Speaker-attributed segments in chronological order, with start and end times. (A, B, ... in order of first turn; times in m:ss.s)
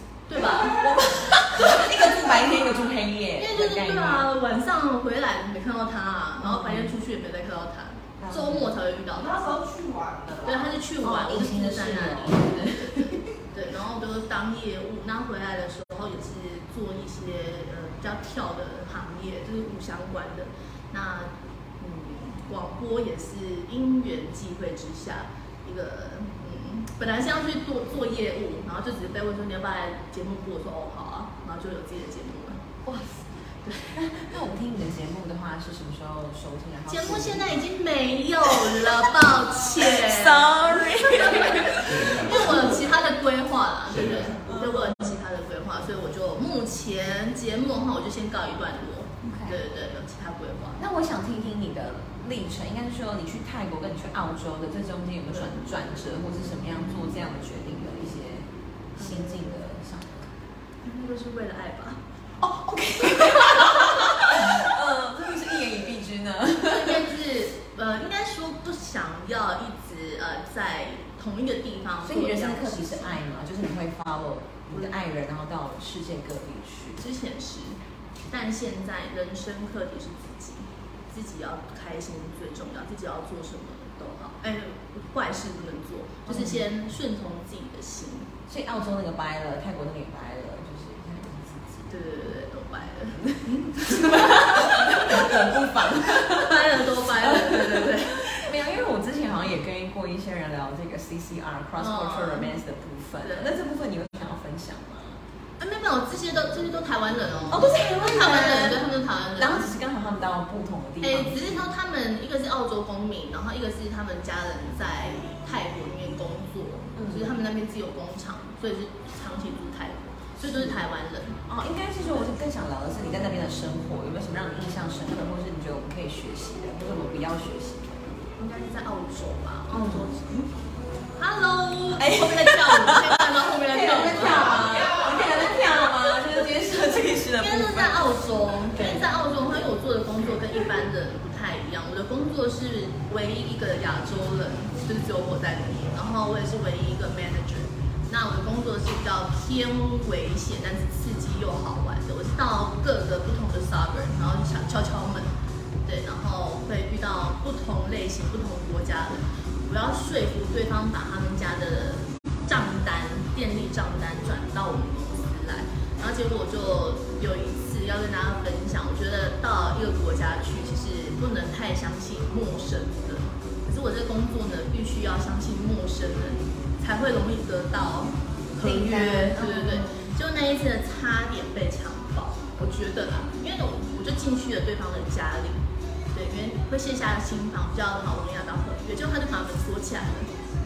0:00.3-0:02.6 A
0:00.3-0:04.3 B
0:03.3-0:09.4 A
0:06.4-0:06.9 B
0:08.2-0:08.8 B
0:09.1-0:10.7 C
0:10.4-0:32.6 A
0:11.0-0:13.3 B
0:32.8-0:33.3 B
0:33.6-0:34.0 A
0:33.9-0:37.6 B
0:36.8-0:50.8 A
0:39.7-0:41.9 B
0:44.5-0:45.1 B
0:49.2-0:49.6 B
0:50.8-1:00.3 B
0:59.0-0:59.6 A
1:00.8-1:02.0 A
1:02.4-1:07.1 B
1:06.6-1:13.2 A
1:12.0-1:17.0 B
1:14.7-1:15.1 A
1:17.0-1:28.3 A
1:26.2-1:26.7 B
1:28.5-1:31.9 B
1:31.9-1:38.4 A
1:33.1-1:45.2 B
1:41.8-1:42.6 A
1:43.2-1:43.6 A
1:45.6-1:49.7 A
1:47.5-1:48.8 B
1:49.4-1:51.7 B
1:51.0-2:01.4 A
1:56.9-1:57.3 B
2:00.4-2:00.8 B
2:01.5-2:08.3 B
2:02.1-2:02.3 A
2:08.4-2:10.5 A
2:09.7-2:10.1 B
2:11.2-2:14.8 A
2:12.0-2:19.1 B
2:14.2-2:15.7 C
2:17.3-2:35.3 A
2:35.8-3:10.3 A
2:58.6-3:00.1 B